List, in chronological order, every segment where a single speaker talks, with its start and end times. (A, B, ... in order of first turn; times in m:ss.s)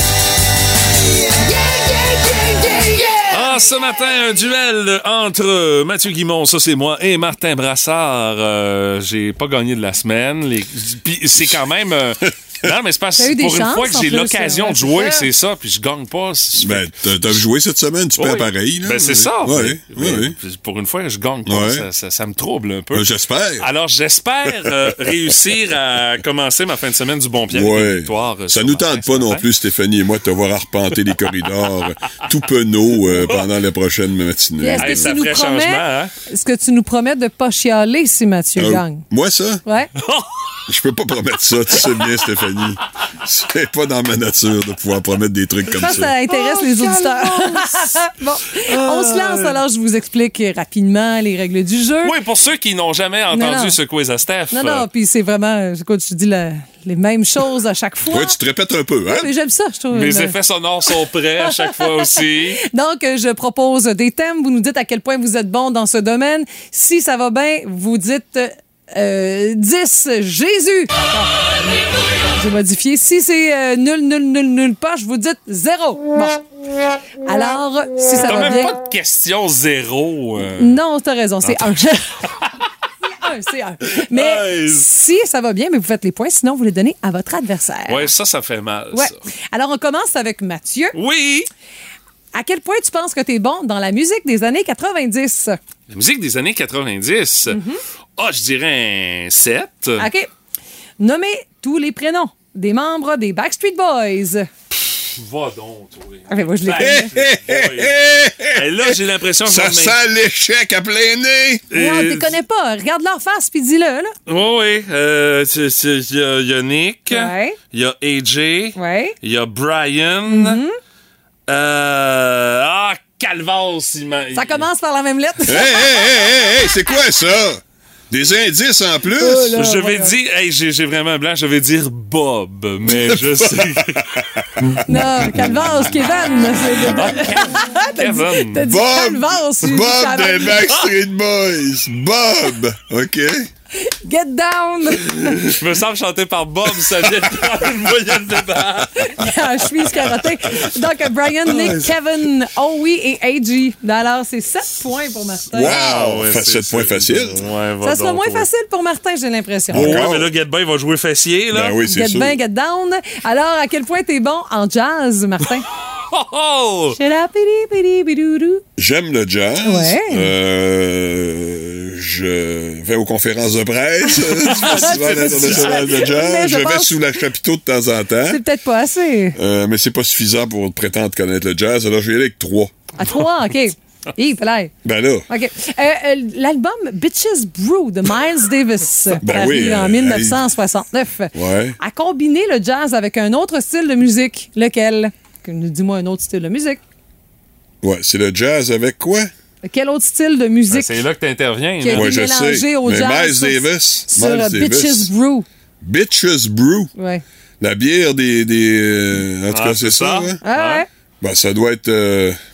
0:01.9-0:03.3 A
0:03.3-0:17.4 B
0:12.3-0:12.7 C
0:13.2-0:15.3 A
0:16.6-0:20.4 C
0:18.2-0:23.1 B
0:21.5-0:21.8 C
0:22.9-0:23.7 C
0:23.6-0:29.4 B
0:27.5-0:35.2 C
0:34.6-0:39.0 A
0:34.8-0:36.1 B
0:38.6-0:39.6 C
0:39.6-0:39.9 A
0:40.7-0:46.1 C
0:45.7-0:52.2 A
0:46.3-0:47.8 B
0:48.7-0:49.6 B
0:52.0-0:54.9 B
0:53.3-0:53.8 A
0:54.5-0:58.4 A
0:58.1-0:59.3 C
0:59.1-1:00.4 A
0:59.9-1:02.6 B
1:01.5-1:11.3 A
1:12.4-1:16.4 A
1:17.2-1:18.8 A
1:18.1-1:20.8 B
1:20.5-1:22.2 A
1:21.4-1:22.5 B
1:23.0-1:28.1 A
1:23.9-1:24.9 B
1:27.9-1:29.2 B
1:28.9-1:31.0 A
1:30.9-1:31.5 B
1:32.3-1:35.6 A
1:35.9-1:37.6 B
1:37.5-1:37.8 A
1:38.2-1:40.1 B
1:40.0-1:40.3 A
1:41.0-1:44.5 A
1:44.7-1:48.0 B
1:46.3-1:47.1 A
1:46.8-1:51.6 C
1:48.5-1:50.0 B
1:51.7-1:52.4 B
1:51.7-1:54.1 A
1:54.3-2:00.6 B
1:57.1-1:57.6 A
1:58.8-1:59.2 A
2:00.3-2:00.8 A
2:01.5-2:04.6 B
2:04.3-2:06.4 A
2:05.5-2:09.5 C
2:09.2-2:10.2 A
2:09.6-2:14.8 B
2:12.9-2:15.7 C
2:14.8-2:20.6 A
2:16.9-2:18.6 B
2:18.6-2:23.5 C
2:23.8-2:25.6 A
2:25.4-2:29.4 B
2:29.0-2:35.8 A
2:31.5-2:31.9 B
2:35.5-2:37.5 C
2:35.6-2:38.5 B
2:37.8-2:40.0 A
2:39.7-2:40.3 C
2:39.7-2:41.8 B
2:41.5-2:42.4 C
2:41.8-2:45.7 A
2:46.1-2:47.0 B
2:47.0-2:48.6 A
2:48.8-2:58.4 C
2:49.6-2:50.3 A
2:54.1-2:57.0 A
2:54.7-2:55.7 B
2:58.3-2:59.4 A
2:59.4-3:02.8 C
3:03.0-3:04.7 A
3:04.8-3:05.3 C
3:05.3-3:16.8 A
3:09.2-3:10.4 C
3:11.4-3:11.8 C
3:17.8-3:19.3 C
3:19.6-3:21.0 A
3:20.7-3:22.1 B
3:21.8-3:25.5 A
3:21.9-3:25.1 C
3:25.8-3:26.9 C
3:27.0-3:27.2 A
3:27.6-3:30.4 C
3:29.5-3:30.8 B
3:30.4-3:30.9 A
3:31.2-3:32.4 C